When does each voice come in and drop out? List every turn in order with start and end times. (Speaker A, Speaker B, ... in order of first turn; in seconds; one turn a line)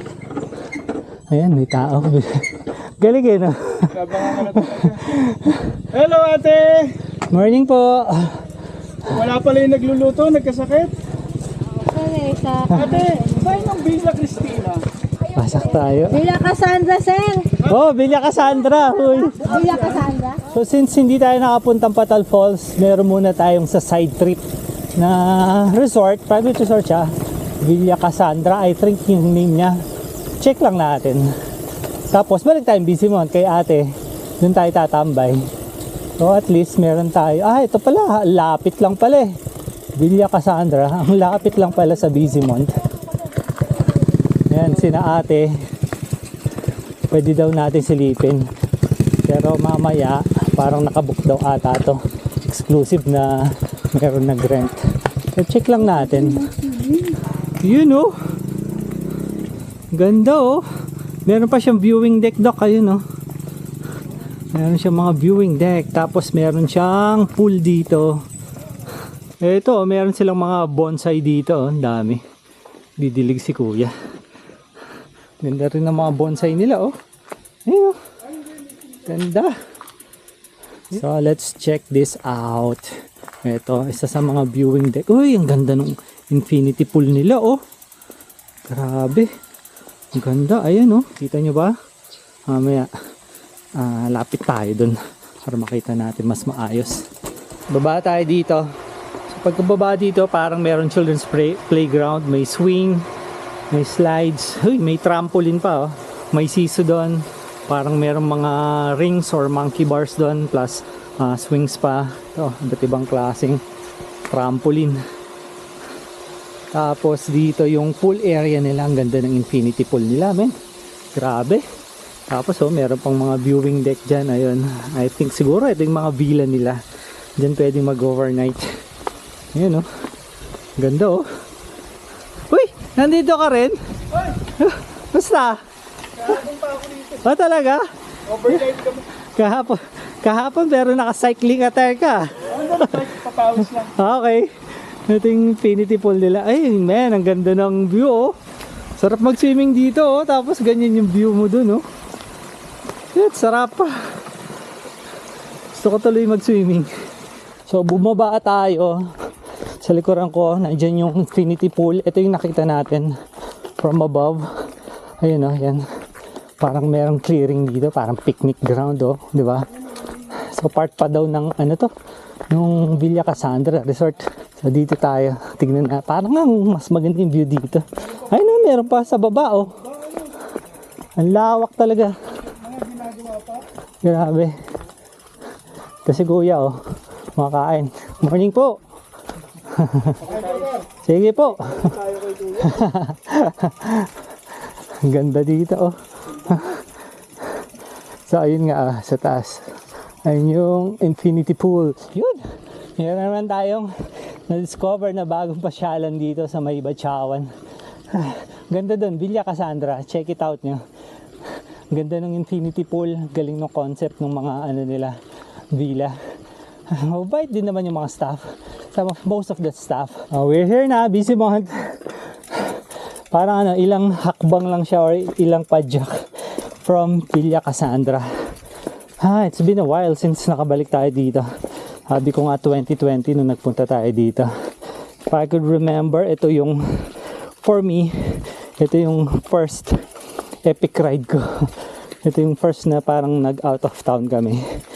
Speaker A: 1.3-4.0
Speaker B: 3.9-5.2
Speaker A: 4.7-5.6
Speaker B: 5.9-6.9
Speaker A: 7.3-8.4
Speaker B: 9.1-10.9
Speaker C: 11.8-13.0
Speaker B: 12.7-14.8
Speaker A: 15.3-16.2
Speaker C: 16.1-17.5
Speaker A: 17.6-19.6
Speaker C: 19.4-20.4
Speaker B: 19.5-19.8
Speaker A: 20.4-24.4
Speaker A: 24.9-29.8
Speaker A: 30.4-31.3
Speaker A: 32.1-33.9
Speaker A: 34.4-35.5
Speaker A: 36.2-39.3
Speaker A: 40.0-42.8
Speaker A: 44.5-45.6
Speaker A: 47.1-48.5
Speaker A: 49.2-54.9
Speaker A: 55.4-56.5
Speaker B: 56.3-57.2
Speaker A: 57.6-58.1
Speaker A: 59.9-60.6
Speaker A: 61.3-63.0
Speaker A: 64.5-68.2
Speaker A: 69.4-72.2
Speaker A: 73.0-73.9
Speaker A: 75.4-76.9
Speaker A: 77.7-78.0
Speaker A: 79.0-79.5
Speaker A: 80.9-87.6
Speaker A: 88.7-89.3
Speaker A: 90.1-91.7
Speaker A: 92.5-92.9
Speaker A: 93.8-97.1
Speaker A: 97.7-98.7
Speaker A: 99.3-103.1
Speaker A: 103.7-113.6
Speaker A: 114.3-115.0
Speaker A: 116.7-120.5
Speaker A: 121.1-121.6
Speaker A: 122.3-126.8
Speaker A: 127.4-128.7
Speaker A: 129.5-129.9
Speaker A: 130.8-131.2
Speaker A: 132.5-133.8
Speaker A: 134.4-135.6
Speaker B: 136.2-137.2
Speaker A: 137.2-137.8
Speaker B: 138.3-139.1
Speaker A: 139.4-143.0
Speaker B: 142.5-143.9
Speaker A: 143.9-144.5
Speaker A: 145.1-148.3
Speaker A: 149.0-151.8
Speaker A: 153.1-153.9
Speaker A: 155.7-156.9
Speaker A: 157.7-159.1
Speaker A: 159.8-163.1
Speaker A: 163.8-164.4
Speaker A: 165.2-165.8
Speaker A: 166.6-171.9
Speaker A: 172.5-179.8
Speaker A: 181.2-182.1
Speaker B: 182.5-183.7
Speaker A: 184.0-184.6
Speaker A: 186.1-186.8
Speaker A: 187.4-188.8
Speaker A: 189.7-190.2
Speaker B: 190.2-190.9
Speaker A: 191.0-194.1
Speaker B: 191.9-192.5
Speaker A: 195.0-196.8
Speaker A: 198.3-199.7
Speaker A: 200.2-202.4
Speaker A: 203.0-203.9
Speaker A: 204.5-207.5
Speaker A: 208.1-210.8
Speaker A: 211.9-215.2
Speaker A: 215.7-216.2
Speaker A: 216.9-226.2
Speaker A: 226.8-228.3
Speaker A: 229.2-231.5
Speaker A: 232.1-234.5
Speaker A: 235.3-240.0
Speaker A: 240.7-244.6